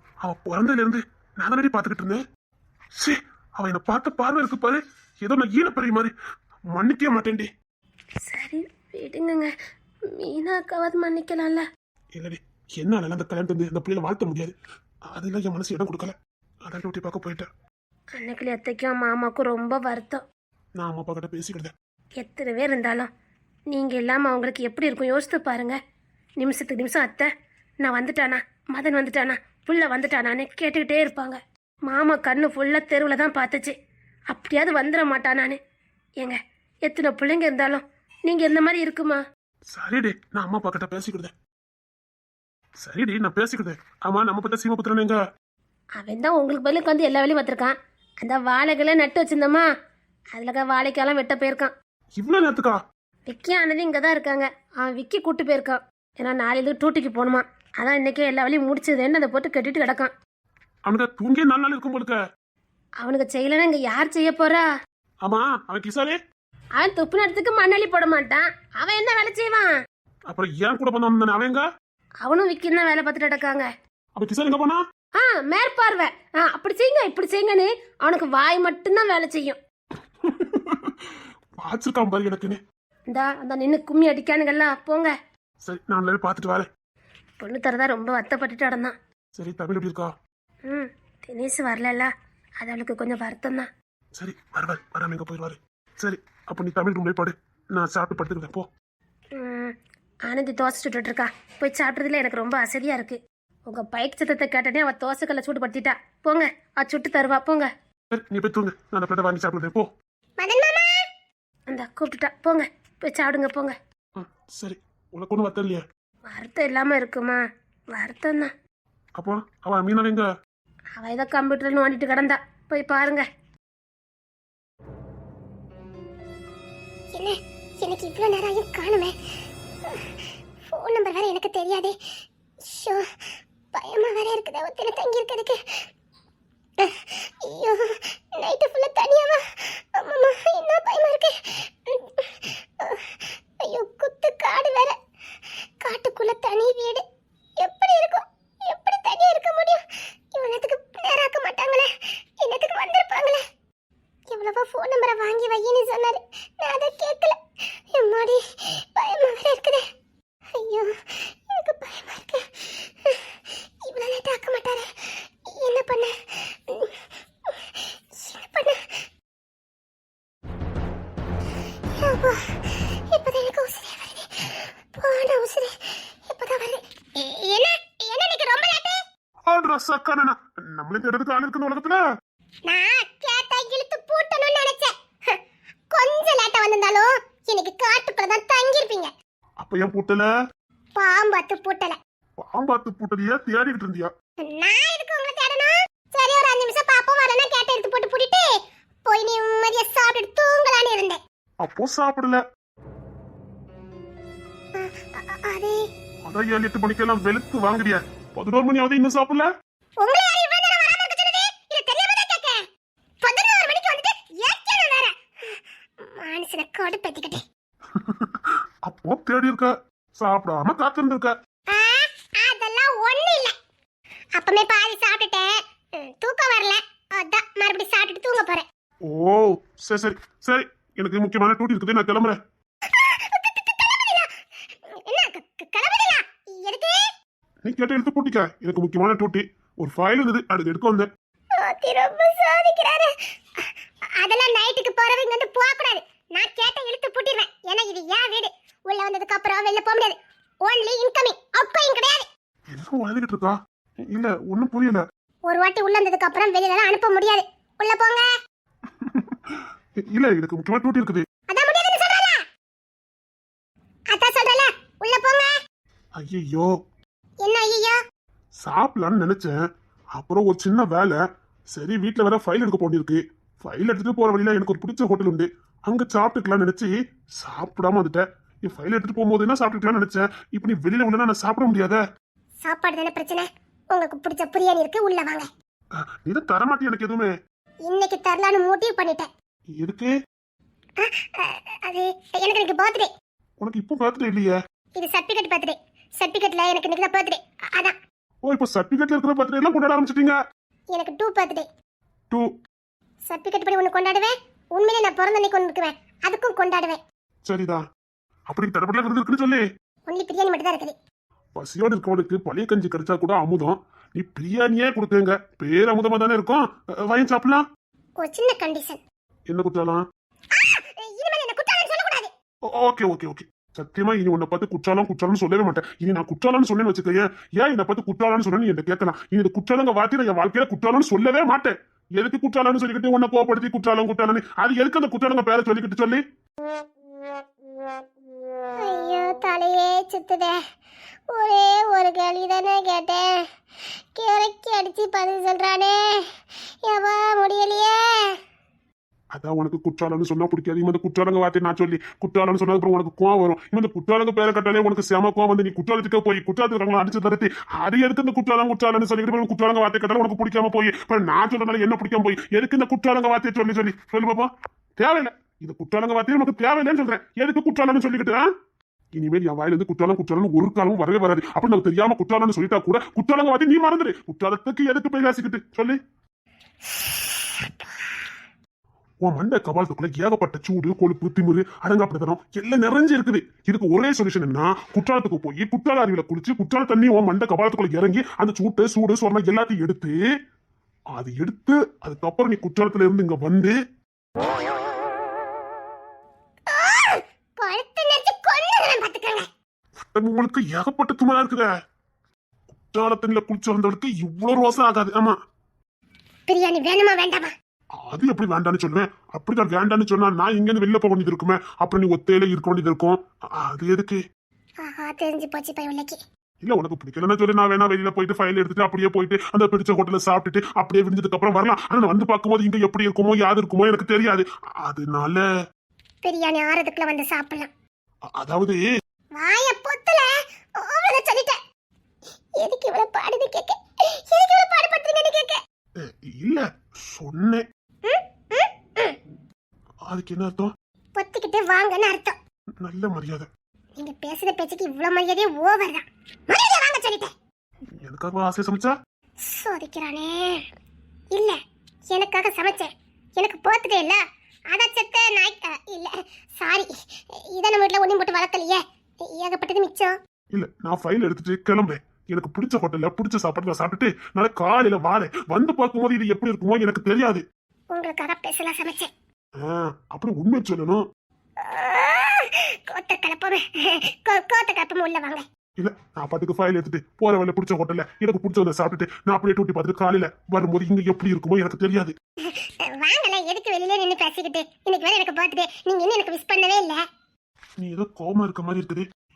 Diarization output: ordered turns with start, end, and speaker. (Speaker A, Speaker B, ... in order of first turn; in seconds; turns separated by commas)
Speaker A: 0.2-2.2, Speaker A: 3.0-6.1, Speaker A: 6.7-7.5, Speaker B: 8.2-9.5, Speaker B: 10.1-11.7, Speaker A: 12.1-14.6, Speaker A: 15.1-16.1, Speaker A: 16.6-17.5, Speaker B: 18.2-20.2, Speaker A: 20.8-21.7, Speaker B: 22.2-23.1, Speaker B: 23.7-25.8, Speaker B: 26.4-27.3, Speaker B: 27.8-33.7, Speaker B: 34.3-35.6, Speaker B: 36.2-39.2, Speaker A: 39.7-41.3, Speaker A: 42.8-45.2, Speaker B: 46.0-49.6, Speaker B: 50.3-51.7, Speaker A: 52.2-52.8, Speaker B: 53.3-60.1, Speaker A: 60.9-62.2, Speaker B: 63.0-64.7, Speaker A: 65.2-66.2, Speaker B: 66.8-69.7, Speaker A: 70.3-71.6, Speaker B: 72.2-73.7, Speaker A: 74.2-74.8, Speaker B: 75.2-79.6, Speaker A: 80.2-81.1, Speaker A: 81.6-82.6, Speaker B: 83.1-85.1, Speaker A: 85.6-86.7, Speaker B: 87.4-88.9, Speaker A: 89.4-90.1, Speaker B: 90.7-92.1, Speaker B: 92.6-93.7, Speaker A: 94.2-98.7, Speaker B: 99.3-99.7, Speaker B: 100.3-107.7, Speaker A: 108.1-109.9, Speaker C: 110.4-110.9, Speaker B: 111.7-113.7, Speaker A: 114.2-115.8, Speaker B: 116.3-117.4, Speaker B: 117.9-118.5, Speaker A: 119.2-120.3, Speaker B: 121.0-123.3, Speaker C: 127.1-129.1, Speaker C: 130.7-131.9, Speaker C: 132.6-133.0, Speaker C: 133.7-135.6, Speaker C: 136.8-144.9, Speaker C: 145.8-147.0, Speaker C: 147.6-149.8, Speaker C: 150.3-151.9, Speaker C: 152.4-153.4, Speaker C: 154.3-157.3, Speaker C: 157.9-159.8, Speaker C: 160.6-163.3, Speaker C: 163.8-166.9, Speaker C: 168.1-169.0, Speaker C: 172.0-179.0, Speaker A: 179.4-182.0, Speaker C: 182.7-185.3, Speaker C: 185.9-189.1, Speaker A: 189.6-190.3, Speaker C: 190.9-192.0, Speaker A: 192.4-194.1, Speaker C: 194.4-198.5, Speaker C: 199.1-201.2, Speaker A: 201.6-202.4, Speaker C: 204.7-205.8, Speaker A: 206.2-209.5, Speaker C: 210.0-212.6, Speaker C: 213.2-217.4, Speaker A: 217.9-221.3, Speaker C: 221.7-223.5, Speaker C: 224.4-228.7, Speaker A: 229.1-232.4, Speaker C: 232.9-234.3, Speaker C: 234.9-237.0, Speaker A: 237.6-241.1, Speaker C: 241.6-243.1, Speaker C: 244.2-252.2, Speaker A: 252.7-253.6, Speaker A: 254.1-255.0, Speaker C: 255.5-258.2, Speaker A: 259.0-261.2, Speaker C: 261.5-262.4, Speaker C: 264.1-265.5, Speaker A: 266.2-266.7, Speaker C: 267.4-268.0, Speaker A: 268.6-269.5, Speaker A: 270.1-271.2, Speaker A: 271.7-282.0, Speaker C: 282.6-285.5, Speaker A: 286.0-287.3, Speaker C: 287.9-289.3, Speaker A: 289.8-290.1, Speaker C: 291.0-293.1, Speaker A: 293.6-294.5, Speaker C: 295.0-297.9, Speaker A: 298.4-300.4, Speaker C: 300.9-301.6, Speaker C: 303.3-307.0, Speaker A: 307.5-307.8, Speaker A: 308.5-309.6, Speaker C: 310.1-310.9, Speaker A: 311.6-317.6, Speaker C: 318.2-319.0, Speaker A: 319.5-320.0, Speaker C: 320.6-322.3, Speaker A: 322.7-336.2, Speaker C: 338.8-340.6, Speaker C: 341.3-343.3, Speaker C: 344.1-346.2, Speaker C: 346.9-348.3, Speaker A: 349.3-368.5, Speaker A: 369.1-376.0, Speaker A: 379.2-390.1, Speaker A: 391.1-393.7, Speaker C: 396.7-399.4, Speaker A: 400.0-401.7, Speaker A: 402.7-405.4, Speaker C: 406.5-407.5, Speaker A: 408.0-414.2, Speaker C: 414.8-416.1, Speaker A: 416.6-425.4, Speaker C: 426.2-427.7, Speaker A: 428.4-428.8, Speaker C: 429.4-430.3, Speaker C: 430.8-431.6, Speaker C: 432.6-435.6, Speaker A: 436.0-437.6, Speaker C: 438.0-439.1, Speaker A: 440.1-440.7, Speaker C: 441.1-442.4, Speaker A: 442.8-443.5, Speaker C: 444.0-447.3, Speaker A: 448.0-448.9, Speaker C: 449.5-450.6, Speaker C: 452.1-456.9, Speaker C: 457.4-460.1, Speaker A: 460.5-467.4, Speaker C: 467.9-469.1, Speaker A: 469.6-471.0, Speaker C: 471.6-475.4, Speaker A: 475.8-482.1, Speaker C: 482.5-487.0, Speaker A: 487.8-489.1